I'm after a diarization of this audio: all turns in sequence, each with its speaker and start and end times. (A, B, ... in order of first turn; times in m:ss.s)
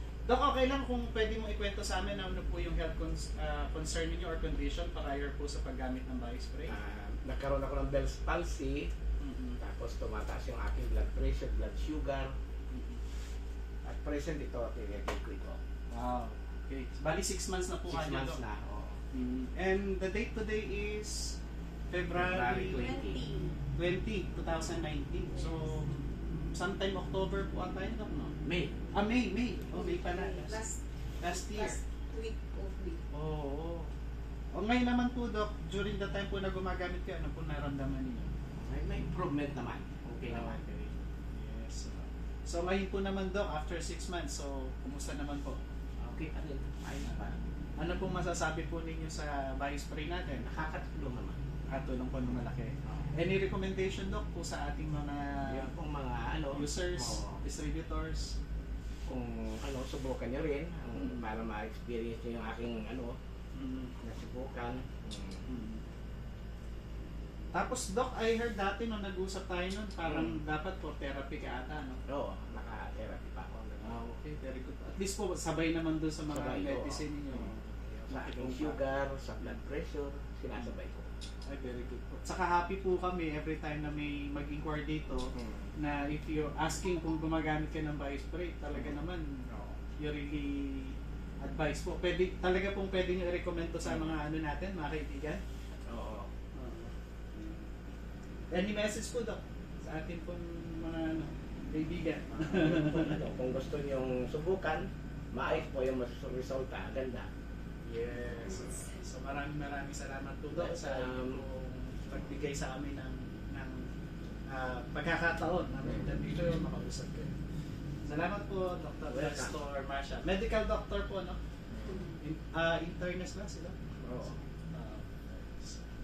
0:00.2-0:06.8 A
0:06.7-0:08.9 B
0:09.2-0:09.6 A
0:09.6-0:12.3 B
0:12.7-0:13.0 A
0:13.8-0:15.6 B
0:15.9-0:18.4 A
0:17.9-0:19.0 B
0:19.1-0:21.3 A
0:21.9-0:23.0 A
0:22.1-0:23.3 B
0:22.7-0:23.6 C
0:23.8-0:28.3 A
0:25.3-0:25.8 C
0:28.4-0:28.7 B
0:28.9-0:30.7 A
0:29.7-0:33.0 C
0:31.2-0:31.8 A
0:33.1-0:33.9 A
0:34.5-0:38.3 A
0:38.5-0:40.6 B
0:40.3-0:45.6 A
0:46.0-0:47.5 B
0:47.0-0:50.5 A
0:50.4-0:51.4 B
0:51.7-0:55.6 A
0:52.8-0:53.1 B
0:55.4-0:57.4 B
0:56.5-0:58.4 A
0:59.1-1:03.2 B
1:03.5-1:03.9 A
1:04.0-1:05.5 B
1:05.4-1:05.8 A
1:07.5-1:12.0 A
1:10.0-1:10.4 B
1:12.1-1:14.1 B
1:13.8-1:18.9 A
1:16.3-1:21.1 B
1:21.4-1:29.3 A
1:25.3-1:25.7 B
1:29.5-1:29.8 B
1:30.0-1:35.4 A
1:33.8-1:34.1 B
1:35.9-1:36.3 B
1:36.5-1:37.7 A
1:38.5-1:43.2 A
1:42.4-1:47.3 B
1:47.9-1:53.9 A
1:48.1-1:48.4 B
1:48.4-1:49.0 C
1:50.5-1:51.4 B
1:54.4-1:57.3 A
1:58.0-2:01.4 A
1:59.1-1:59.6 B
2:01.7-2:02.1 B
2:01.8-2:02.2 C
2:02.2-2:05.8 A
2:04.0-2:04.3 B